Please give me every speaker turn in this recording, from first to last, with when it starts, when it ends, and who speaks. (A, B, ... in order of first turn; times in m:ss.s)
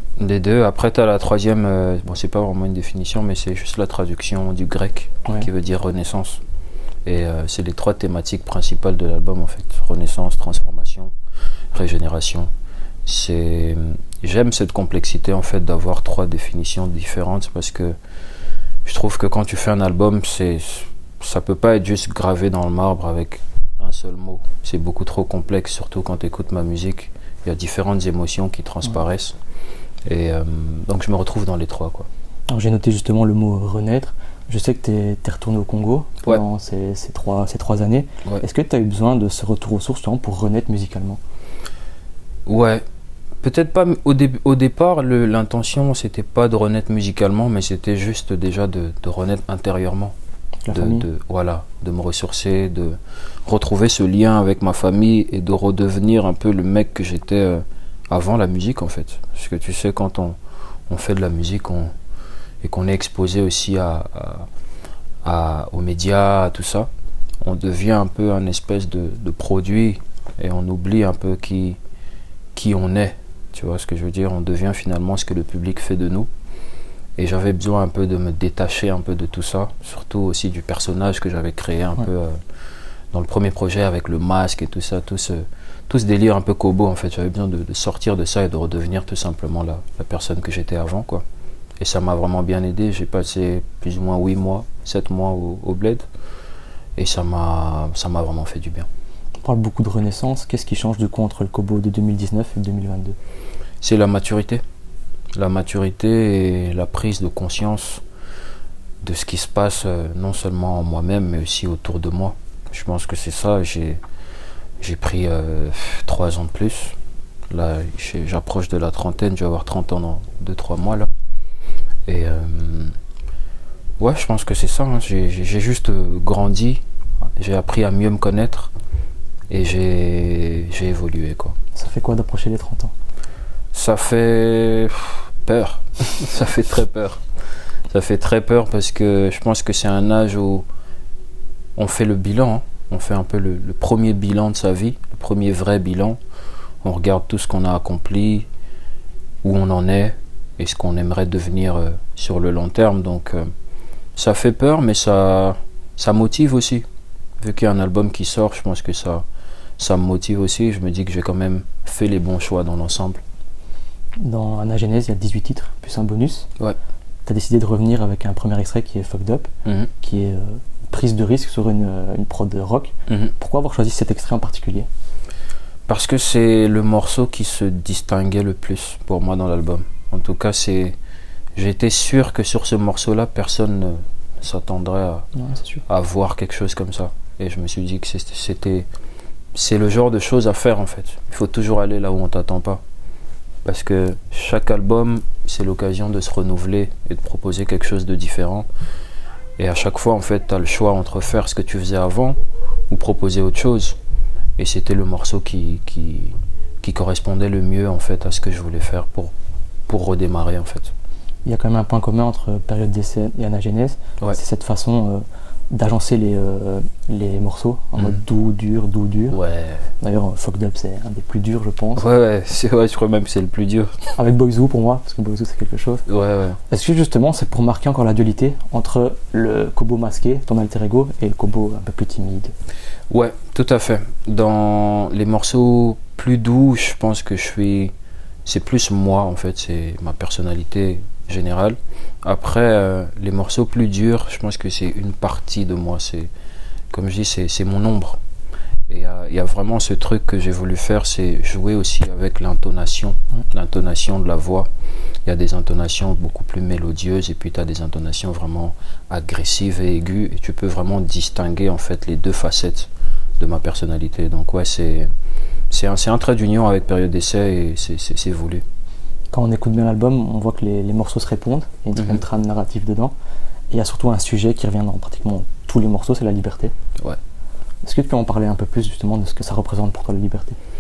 0:00.2-0:06.4 A
0:07.0-0:11.1 A
0:11.7-0:12.5 A
0:13.0-0:18.0 A
0:18.8-0:29.4 A
0:30.1-0:32.1 A
0:32.5-0:41.2 B
0:42.5-0:42.8 A
0:43.4-0:50.2 A
0:50.6-0:51.0 B
0:50.7-1:00.4 A
1:00.9-1:01.9 A
1:02.6-1:04.5 A
1:05.2-1:06.9 A
1:07.4-1:11.8 A
1:12.5-1:16.3 A
1:17.2-1:22.4 A
1:23.1-1:31.2 A
1:31.8-1:36.1 A
1:37.0-1:38.9 A
1:39.4-1:43.2 B
1:43.8-1:44.6 A
1:45.4-1:48.0 A
1:49.0-1:54.0 A
1:54.8-1:57.0 A
1:57.5-2:01.1 A
2:02.1-2:03.0 A
2:04.0-2:06.8 A
2:07.4-2:08.7 A
2:09.5-2:11.6 A
2:11.8-2:12.9 B
2:13.7-2:17.2 A
2:17.9-2:20.7 A
2:21.8-2:26.2 A
2:26.8-2:28.5 A
2:29.4-2:33.5 A
2:34.2-2:36.8 A
2:37.4-2:39.2 A
2:39.8-2:43.2 A
2:44.2-2:46.5 B
2:47.3-2:49.5 B
2:50.0-2:54.9 B
2:55.9-3:01.0 A
3:01.5-3:05.3 A
3:05.3-3:05.8 B
3:05.9-3:08.9 A
3:09.5-3:12.8 A
3:13.6-3:18.7 A
3:19.6-3:22.4 A
3:22.9-3:24.0 A
3:24.6-3:29.3 A
3:29.9-3:30.9 A
3:31.4-3:39.4 B
3:38.0-3:38.2 A
3:39.3-3:39.9 A
3:40.0-3:42.1 B
3:42.0-3:44.1 A
3:44.2-3:46.0 B
3:46.1-3:46.6 A
3:46.7-3:52.5 B
3:53.1-3:57.9 A
3:58.5-4:06.3 A
4:06.9-4:08.2 A
4:08.9-4:14.7 A
4:15.2-4:25.1 A
4:25.7-4:28.6 A
4:29.3-4:33.1 B
4:32.0-4:32.2 A
4:33.7-4:36.7 B
4:37.8-4:40.6 B